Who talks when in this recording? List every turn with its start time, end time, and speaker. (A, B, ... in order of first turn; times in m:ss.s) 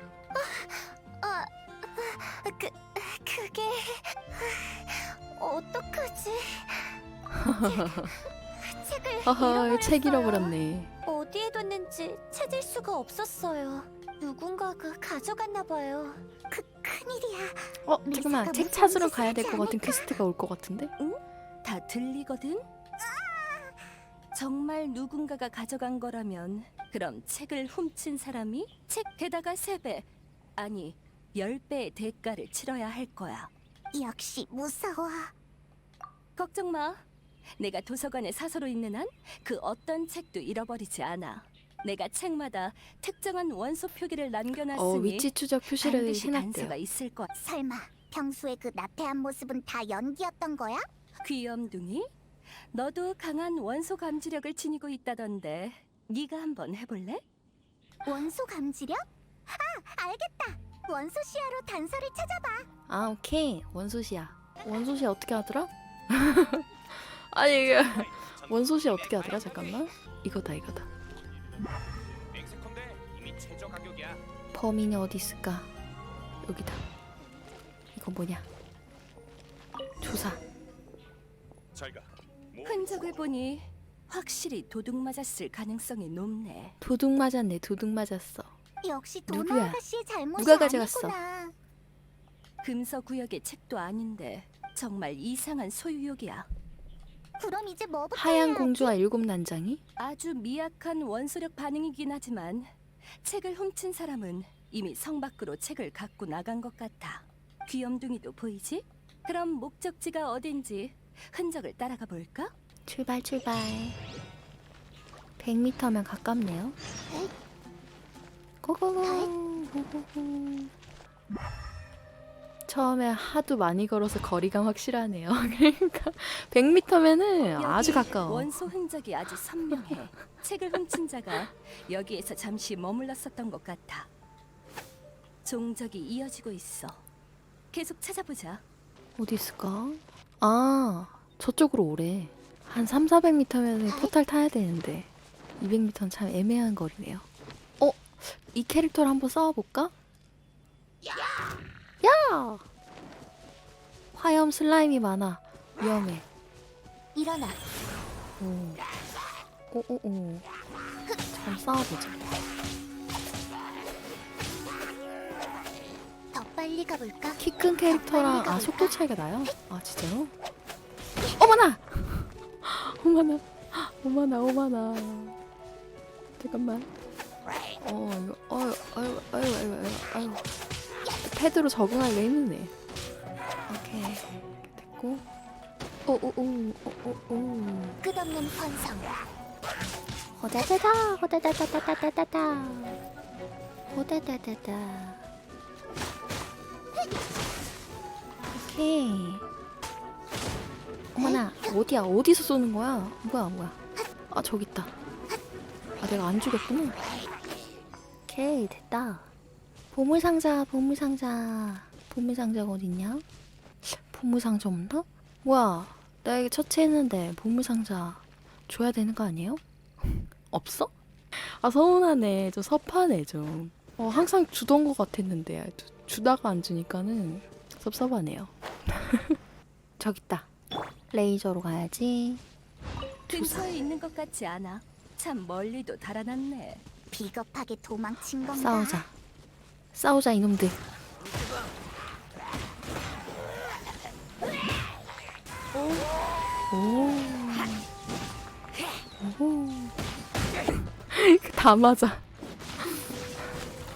0:00.3-0:07.0 A
0:07.3-0:08.2 B
0:07.5-0:10.5 A
0:09.2-0:10.9 B
0:11.1-0:16.2 A
0:16.5-0:20.2 C
0:17.9-0:20.9 B
0:21.0-0:22.6 D
0:23.0-0:23.8 C
0:24.3-0:30.1 D
0:30.6-0:33.5 D
0:33.9-0:35.3 C
0:36.4-0:37.0 D
0:37.6-0:47.3 D
0:44.7-0:46.8 B
0:47.3-0:50.9 C
0:51.2-0:52.1 D
0:52.7-0:57.2 D
0:58.0-1:02.7 C
1:02.9-1:10.9 B
1:07.5-1:09.9 E
1:12.3-1:14.2 E
1:14.5-1:15.7 B
1:16.4-1:16.8 B
1:18.0-1:18.4 B
1:20.0-1:20.4 B
1:21.7-1:23.1 E
1:22.6-1:26.8 D
1:26.8-1:28.5 B
1:28.8-1:31.6 C
1:29.3-1:29.8 B
1:30.4-1:31.2 B
1:32.6-1:36.5 D
1:37.4-1:39.0 C
1:38.2-1:39.8 B
1:40.0-1:42.7 D
1:43.2-1:52.5 D
1:52.9-1:54.0 B
1:55.4-1:56.8 B
1:58.6-2:00.7 B
1:59.0-1:59.3 C
2:02.7-2:08.7 B
2:07.6-2:14.1 D
2:09.7-2:10.3 B
2:15.4-2:17.0 D
2:17.7-2:18.6 D
2:19.2-2:27.2 B
2:23.9-2:24.1 C
2:27.8-2:29.9 B
2:32.0-2:32.6 B
2:34.1-2:36.3 B
2:37.2-2:37.6 C
2:38.4-2:38.8 B
2:39.7-2:40.4 B
2:41.3-2:42.3 B
2:46.4-2:49.0 C
2:46.4-2:47.4 A
2:47.4-2:50.3 B
2:51.4-2:55.4 B
2:56.4-2:56.9 B
2:57.8-3:00.4 B
3:01.2-3:02.7 B
3:03.7-3:05.2 B
3:06.1-3:08.0 B
3:08.0-3:09.2 C
3:10.4-3:13.0 B
3:13.9-3:15.2 B
3:18.6-3:19.4 B
3:21.2-3:23.8 B
3:21.2-3:21.7 C
3:24.3-3:24.9 B
3:26.0-3:27.0 B
3:28.3-3:29.2 B
3:29.9-3:33.2 B
3:33.8-3:49.4 B
3:50.0-3:50.5 B
3:51.1-3:52.4 B
3:53.3-3:53.7 B
3:53.3-3:56.8 D
3:57.1-3:59.0 C
3:58.6-3:59.1 B
3:59.9-4:00.8 B
4:06.7-4:07.8 B
4:09.2-4:09.9 B
4:11.0-4:12.2 B